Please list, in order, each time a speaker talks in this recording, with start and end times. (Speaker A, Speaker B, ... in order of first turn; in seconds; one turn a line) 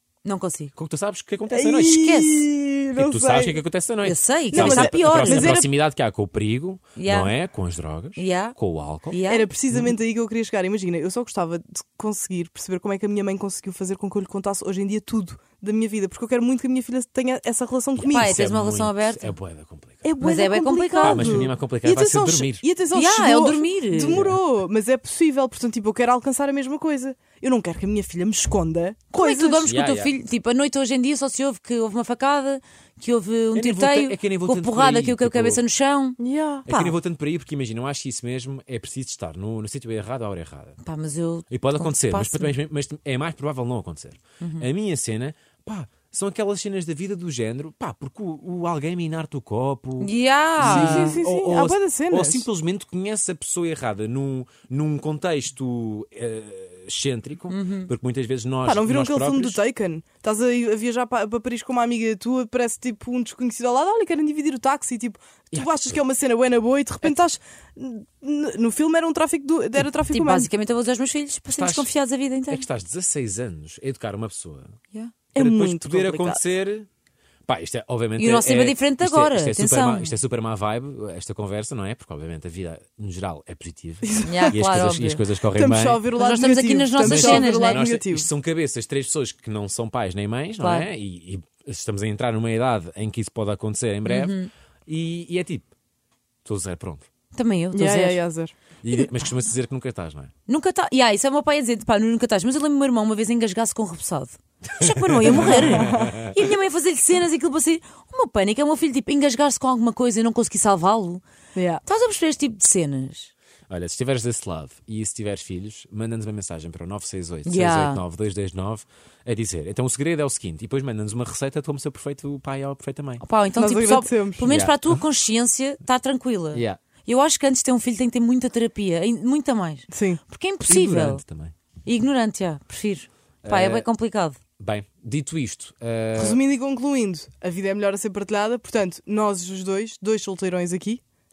Speaker A: 0.2-0.7
Speaker B: 0.8-2.1
Speaker C: 1.5-3.6
Speaker A: 1.9-2.4
Speaker B: 2.9-9.9
Speaker A: 4.0-5.6
Speaker C: 4.5-5.7
Speaker A: 7.0-7.3
Speaker A: 8.2-8.6
Speaker A: 9.1-9.5
Speaker C: 9.3-18.4
Speaker B: 18.0-20.1
Speaker A: 18.0-19.4
Speaker C: 20.0-29.7
Speaker A: 20.2-21.5
Speaker B: 21.0-22.6
Speaker A: 22.9-24.2
Speaker B: 24.1-24.4
Speaker A: 29.1-37.0
Speaker B: 29.6-30.1
Speaker B: 33.5-35.6
Speaker C: 36.2-36.7
Speaker B: 36.7-40.8
Speaker A: 40.8-42.5
Speaker B: 41.5-59.6
Speaker A: 44.4-44.7
Speaker A: 50.0-51.2
Speaker C: 50.6-52.5
Speaker A: 57.5-57.9
Speaker C: 58.6-70.5
Speaker B: 65.5-66.0
Speaker A: 70.0-72.6
Speaker B: 71.5-71.9
Speaker B: 72.5-74.8
Speaker C: 75.3-76.4
Speaker B: 75.3-76.9
Speaker B: 77.5-86.0
Speaker A: 78.2-80.2
Speaker C: 84.0-84.6
Speaker A: 84.2-85.2
Speaker C: 85.5-88.3
Speaker A: 86.2-87.8
Speaker B: 87.0-95.7
Speaker A: 90.6-90.9
Speaker A: 94.0-94.5
Speaker B: 96.4-97.1
Speaker A: 97.3-98.2
Speaker C: 97.7-98.5
Speaker B: 98.8-100.3
Speaker A: 100.5-111.2
Speaker B: 104.8-106.3
Speaker C: 105.3-106.2
Speaker C: 111.5-111.8
Speaker A: 111.8-113.3
Speaker B: 113.7-123.2
Speaker A: 117.4-118.0
Speaker A: 123.2-131.2
Speaker C: 123.5-124.5
Speaker B: 124.4-125.0
Speaker B: 126.5-126.8
Speaker C: 129.9-130.2
Speaker B: 130.7-131.5
Speaker A: 131.8-134.4
Speaker B: 133.4-133.9
Speaker B: 134.6-136.4
Speaker C: 136.2-141.0